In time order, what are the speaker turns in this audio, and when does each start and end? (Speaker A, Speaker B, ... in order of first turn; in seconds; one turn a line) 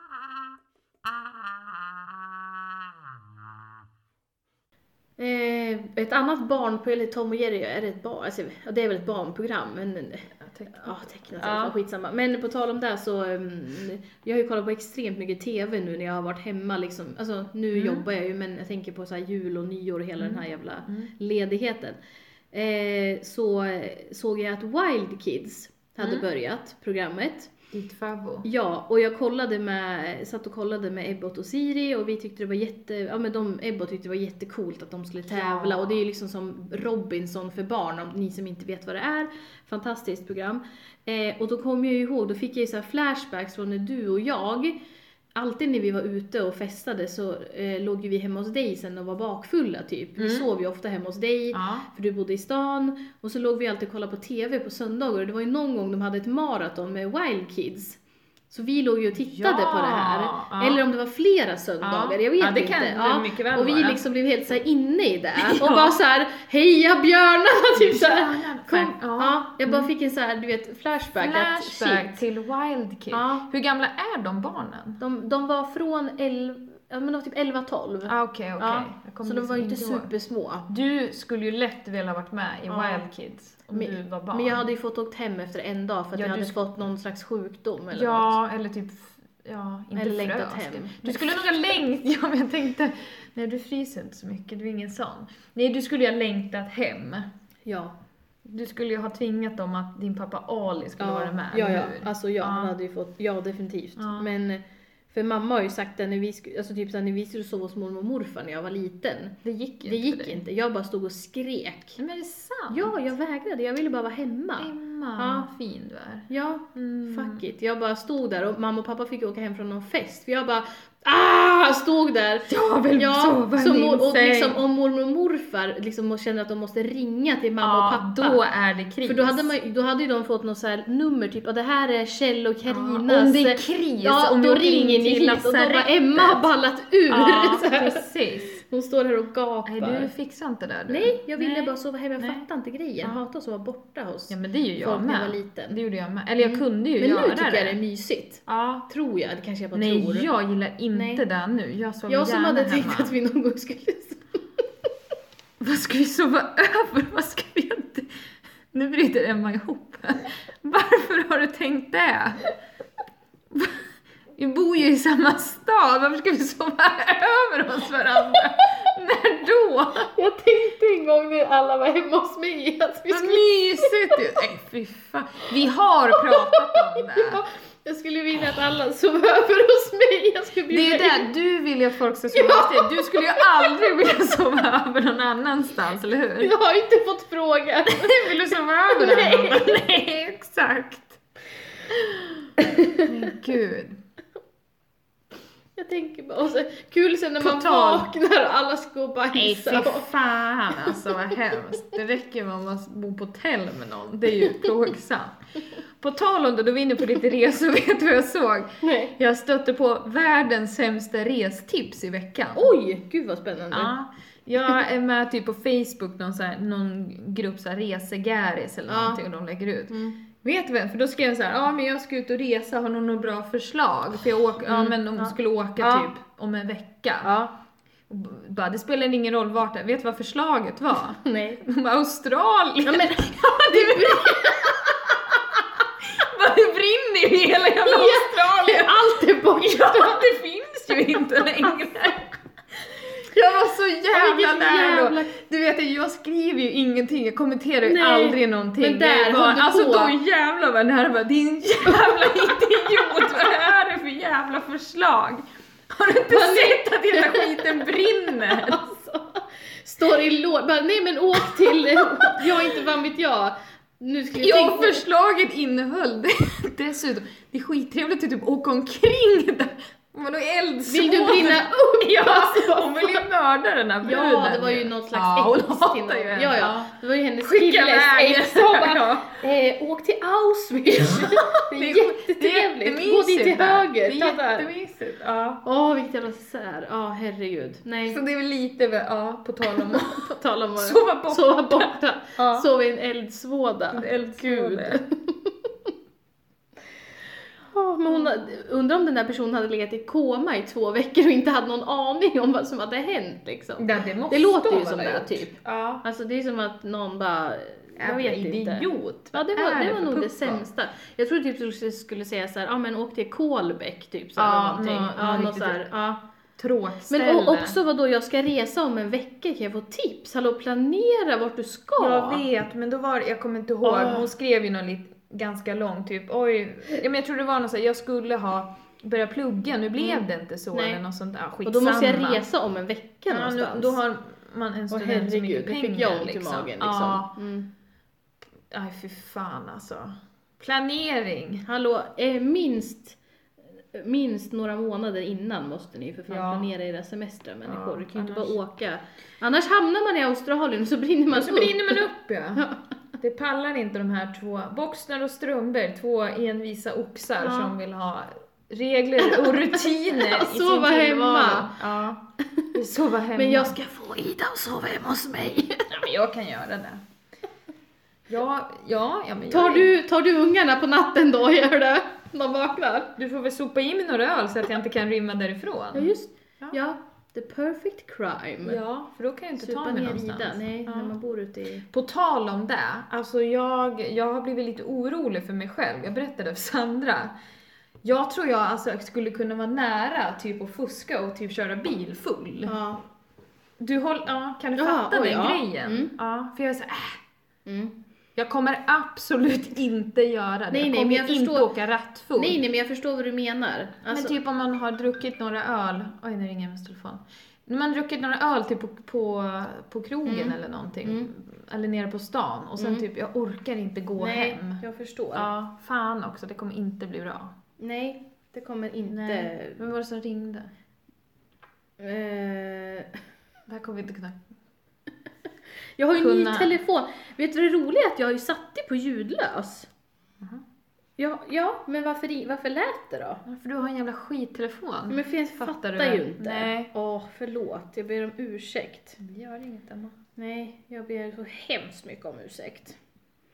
Speaker A: 5.2-22.0
Speaker B: 10.4-11.8
Speaker B: 17.8-18.1
Speaker B: 20.2-21.1
Speaker A: 22.5-27.5
Speaker B: 27.7-28.5
Speaker A: 28.4-44.8
Speaker B: 35.3-35.9
Speaker A: 45.4-72.2
Speaker B: 50.2-50.5
Speaker B: 51.5-51.9
Speaker B: 59.2-60.8
Speaker B: 61.8-64.0
Speaker B: 65.4-66.0
Speaker B: 67.8-69.9
Speaker B: 71.2-75.0
Speaker A: 73.1-73.5
Speaker A: 75.0-80.7
Speaker B: 78.1-80.1
Speaker B: 80.7-84.6
Speaker A: 82.7-83.1
Speaker A: 83.7-88.3
Speaker B: 86.2-86.6
Speaker B: 87.9-97.3
Speaker A: 90.0-91.5
Speaker A: 97.7-98.0
Speaker B: 98.5-102.7
Speaker A: 101.0-112.0
Speaker B: 104.0-104.3
Speaker B: 109.4-110.4
Speaker B: 112.0-113.0
Speaker A: 112.7-115.5
Speaker B: 114.6-117.4
Speaker A: 116.3-128.4
Speaker B: 122.5-124.6
Speaker B: 127.6-129.5
Speaker A: 129.1-140.1
Speaker B: 132.7-136.5
Speaker B: 137.1-138.6
Speaker B: 139.7-142.4
Speaker A: 140.9-145.8
Speaker B: 144.3-147.8
Speaker A: 146.4-150.3
Speaker B: 148.5-148.8
Speaker B: 149.7-153.1
Speaker A: 150.9-151.2
Speaker A: 152.1-154.4
Speaker B: 155.6-158.1
Speaker B: 158.7-162.5
Speaker B: 164.4-170.1
Speaker A: 170.1-174.2
Speaker B: 173.1-177.4
Speaker A: 176.2-181.3
Speaker B: 180.7-186.5
Speaker A: 182.3-183.9
Speaker A: 186.4-188.3
Speaker B: 187.9-191.2
Speaker A: 188.9-189.8
Speaker A: 192.6-193.2
Speaker B: 193.0-194.0
Speaker A: 195.8-200.1
Speaker B: 197.4-198.1
Speaker B: 199.3-212.7
Speaker A: 200.8-201.2
Speaker A: 208.8-209.1
Speaker A: 212.6-213.9
Speaker B: 213.7-227.3
Speaker A: 218.9-219.2
Speaker A: 219.9-220.2
Speaker A: 224.6-226.1
Speaker A: 227.2-227.5
Speaker B: 228.1-242.3
Speaker A: 231.2-231.6
Speaker A: 232.8-235.4
Speaker A: 237.8-240.2
Speaker A: 241.2-241.9
Speaker B: 243.0-258.9
Speaker A: 244.1-245.3
Speaker A: 247.8-250.2
Speaker A: 251.8-253.3
Speaker A: 256.3-265.0
Speaker B: 261.9-262.7
Speaker B: 264.4-279.4
Speaker A: 270.9-273.2
Speaker A: 274.0-284.7
Speaker B: 281.4-285.6
Speaker A: 285.6-288.2
Speaker B: 288.1-292.7
Speaker A: 289.7-295.9
Speaker B: 293.9-295.0
Speaker A: 297.7-316.2
Speaker B: 303.8-306.1
Speaker B: 308.0-310.6
Speaker B: 314.4-315.9
Speaker B: 316.6-317.8
Speaker A: 317.1-322.4
Speaker B: 322.0-332.4
Speaker A: 323.8-324.3
Speaker A: 330.0-331.0
Speaker A: 331.6-334.0
Speaker B: 333.3-337.4
Speaker A: 334.9-337.7
Speaker B: 338.7-341.7
Speaker A: 341.7-343.2
Speaker A: 343.9-352.1
Speaker B: 346.3-346.7
Speaker B: 347.7-348.6
Speaker B: 351.3-362.2
Speaker A: 357.4-357.8
Speaker A: 359.2-361.8
Speaker B: 362.7-363.8
Speaker A: 363.4-366.0
Speaker B: 365.9-367.0
Speaker B: 368.3-369.9
Speaker A: 369.5-373.1
Speaker B: 373.2-376.8
Speaker A: 375.9-378.8
Speaker B: 378.6-381.1
Speaker A: 379.6-381.9
Speaker B: 381.9-387.3
Speaker B: 388.0-392.8
Speaker A: 392.7-393.0
Speaker B: 393.8-397.2
Speaker A: 394.8-396.1
Speaker A: 397.7-398.0
Speaker B: 398.4-402.6
Speaker A: 400.7-401.7
Speaker A: 402.4-404.4
Speaker B: 404.1-414.8
Speaker A: 410.3-411.3
Speaker A: 412.8-413.1
Speaker A: 414.2-415.5
Speaker B: 415.4-417.5
Speaker A: 417.8-419.8
Speaker B: 419.1-420.7
Speaker A: 422.0-423.1
Speaker B: 423.7-424.4
Speaker A: 426.0-429.9
Speaker B: 426.2-426.7
Speaker A: 431.2-433.4
Speaker B: 433.4-436.9
Speaker A: 435.1-439.2
Speaker B: 439.2-440.2
Speaker A: 440.4-443.0